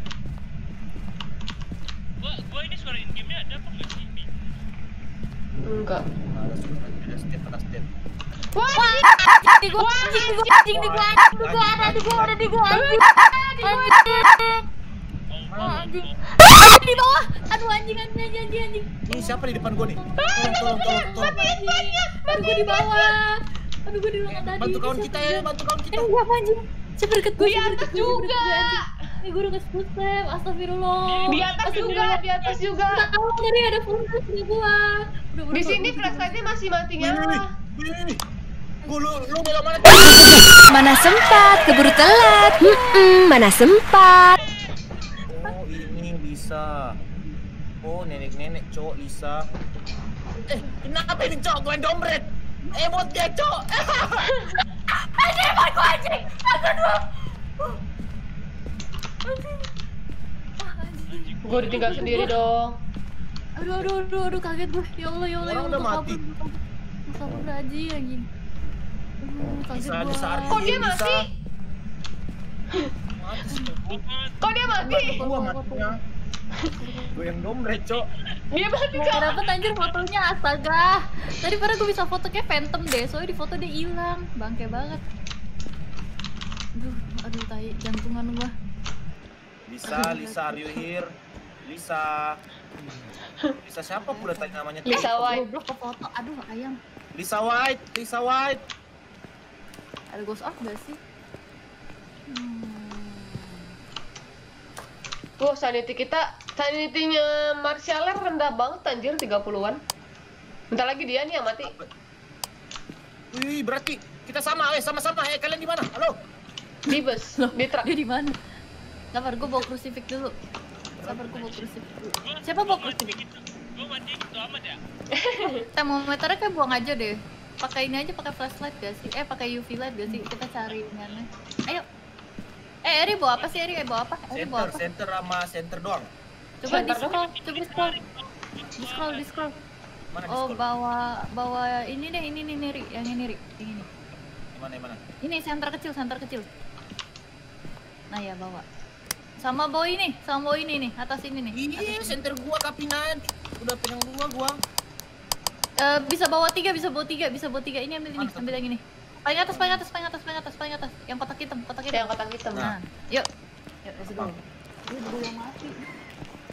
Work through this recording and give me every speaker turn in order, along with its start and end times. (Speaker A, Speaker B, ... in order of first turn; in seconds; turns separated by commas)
Speaker A: 2.5-4.0, Speaker B: 5.6-6.1, Speaker C: 6.3-7.9, Speaker B: 8.5-10.6, Speaker D: 8.7-13.1, Speaker C: 10.7-12.4, Speaker B: 12.7-14.2, Speaker D: 13.6-14.6, Speaker C: 15.5-16.0, Speaker A: 15.5-15.9, Speaker D: 15.6-32.2, Speaker C: 19.1-21.4, Speaker B: 20.2-23.1, Speaker C: 24.3-26.1, Speaker B: 27.4-29.2, Speaker A: 31.1-32.1, Speaker B: 31.3-33.1, Speaker D: 32.9-36.4, Speaker B: 35.5-37.5, Speaker C: 37.0-38.2, Speaker D: 38.8-39.4, Speaker C: 38.9-40.5, Speaker E: 40.1-44.4, Speaker D: 42.6-43.1, Speaker C: 45.3-47.0, Speaker C: 47.8-49.4, Speaker C: 50.5-54.3, Speaker B: 54.2-54.6, Speaker D: 55.2-57.0, Speaker D: 59.2-59.7, Speaker D: 60.6-62.4, Speaker B: 61.4-62.8, Speaker A: 61.5-61.8, Speaker D: 63.6-68.3, Speaker C: 65.4-66.2, Speaker D: 69.2-70.8, Speaker C: 69.7-71.2, Speaker B: 70.5-71.3, Speaker C: 73.2-74.0, Speaker B: 74.4-75.9, Speaker C: 74.8-76.0, Speaker D: 74.8-75.3, Speaker B: 76.6-77.5, Speaker C: 77.1-78.1, Speaker B: 78.5-79.4, Speaker D: 79.0-85.0, Speaker D: 86.8-88.5, Speaker C: 89.7-91.1, Speaker D: 89.9-90.8, Speaker C: 91.6-92.4, Speaker C: 93.5-95.4, Speaker D: 94.1-96.8, Speaker B: 94.8-95.5, Speaker C: 97.1-98.6, Speaker D: 100.1-101.0, Speaker D: 102.3-103.7, Speaker B: 105.4-109.8, Speaker B: 110.7-111.8, Speaker C: 111.6-111.9, Speaker C: 113.3-116.2, Speaker B: 116.9-117.9, Speaker D: 116.9-118.4, Speaker D: 119.1-120.3, Speaker C: 121.0-121.7, Speaker D: 121.0-123.2, Speaker A: 122.7-124.8, Speaker B: 125.1-125.7, Speaker D: 125.5-131.8, Speaker D: 132.8-134.8, Speaker C: 134.3-136.1, Speaker D: 136.6-138.0, Speaker B: 136.7-137.2, Speaker D: 138.8-139.6, Speaker C: 140.1-140.7, Speaker D: 140.3-143.9, Speaker C: 144.5-145.0, Speaker D: 145.2-146.5, Speaker D: 148.1-148.7, Speaker D: 149.4-152.2, Speaker C: 151.5-154.6, Speaker D: 155.8-163.3, Speaker C: 158.2-158.6, Speaker C: 159.4-159.8, Speaker B: 161.9-162.7, Speaker D: 163.8-165.9, Speaker C: 164.1-164.3